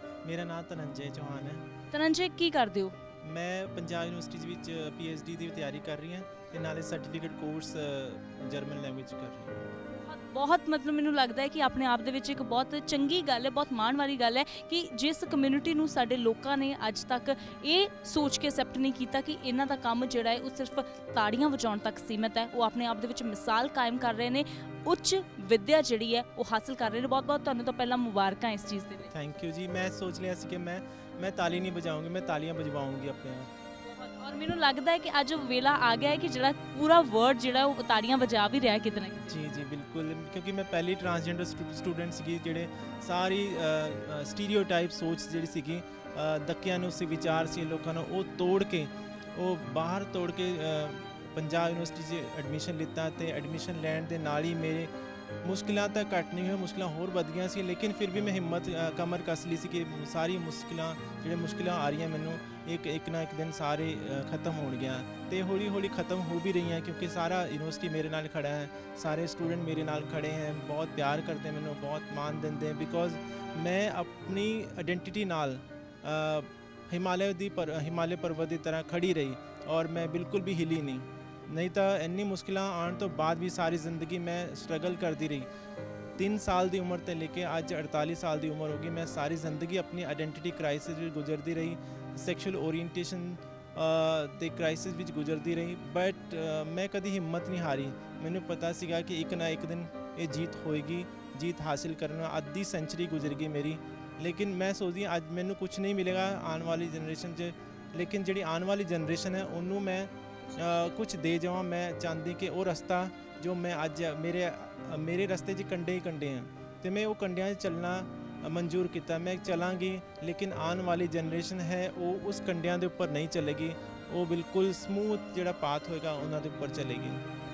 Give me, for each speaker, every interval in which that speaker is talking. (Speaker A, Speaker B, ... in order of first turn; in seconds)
Speaker A: 0.2-1.7, 3.2-9.6, 29.1-33.5, 39.3-54.9, 55.4-85.5, 86.2-127.2
Speaker B: 1.9-3.0, 9.9-29.1, 33.8-39.4